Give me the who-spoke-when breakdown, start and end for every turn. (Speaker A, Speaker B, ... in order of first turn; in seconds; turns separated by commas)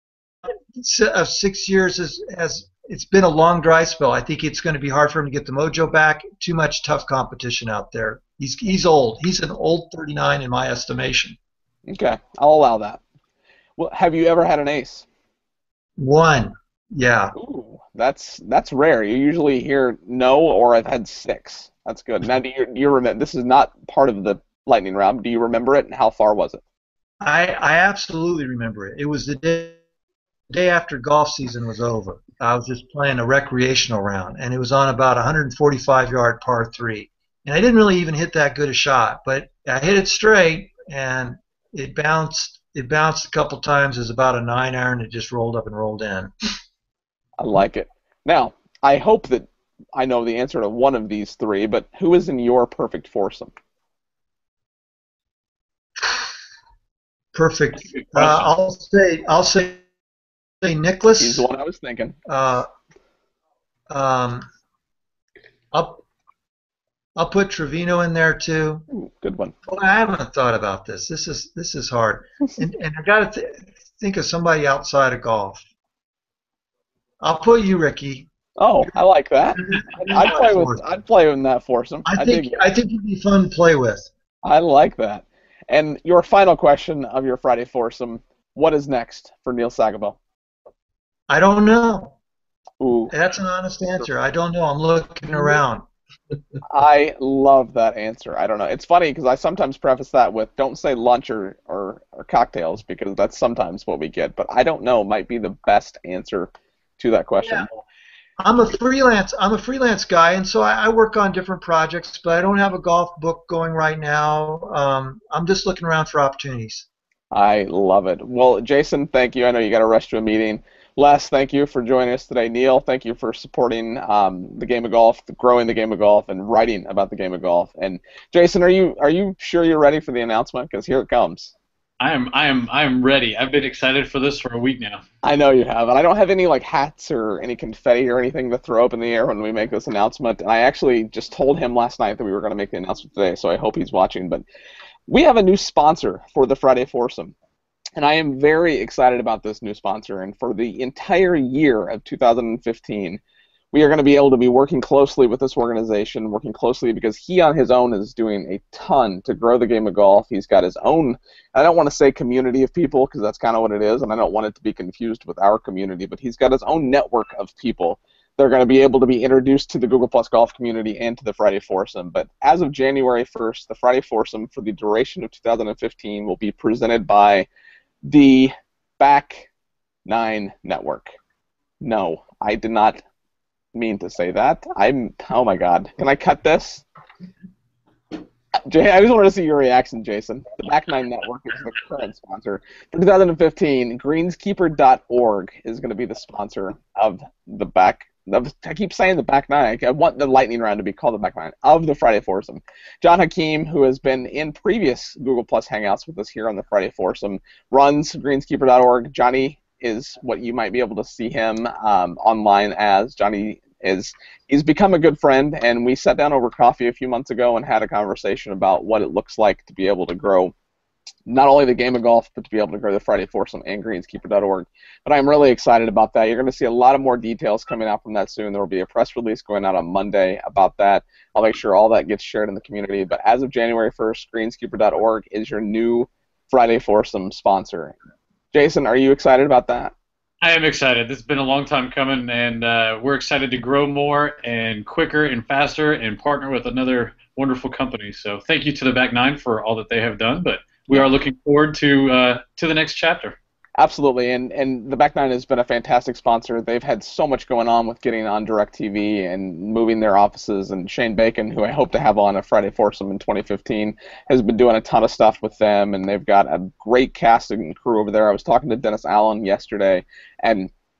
Speaker A: 0.8-11.4, Speaker B: 11.9-13.0, Speaker B: 13.8-15.1, Speaker A: 16.0-17.3, Speaker B: 17.4-26.6, Speaker A: 27.2-29.8, Speaker A: 30.5-46.3, Speaker B: 47.4-53.5, Speaker A: 57.3-59.8, Speaker C: 58.0-58.4, Speaker A: 60.6-61.5, Speaker B: 61.2-62.2, Speaker A: 62.3-62.7, Speaker A: 63.9-64.5, Speaker A: 65.7-66.0, Speaker A: 67.2-68.8, Speaker B: 68.9-69.5, Speaker A: 69.7-75.6, Speaker A: 77.2-78.3, Speaker B: 78.6-82.6, Speaker A: 79.6-80.8, Speaker A: 82.1-84.1, Speaker B: 84.4-90.2, Speaker A: 91.3-92.2, Speaker B: 92.8-93.1, Speaker A: 93.1-95.9, Speaker B: 96.7-107.8, Speaker A: 107.4-107.7, Speaker A: 108.4-116.9, Speaker B: 117.3-131.5, Speaker C: 132.0-135.0, Speaker B: 135.2-144.4, Speaker B: 145.1-147.3, Speaker B: 148.0-153.2, Speaker B: 153.7-177.5, Speaker B: 178.1-179.5, Speaker B: 180.1-181.1, Speaker B: 181.8-183.0, Speaker B: 183.7-186.8, Speaker B: 188.7-220.5, Speaker B: 221.3-237.9, Speaker B: 238.5-239.9, Speaker C: 240.4-253.4, Speaker B: 253.8-270.7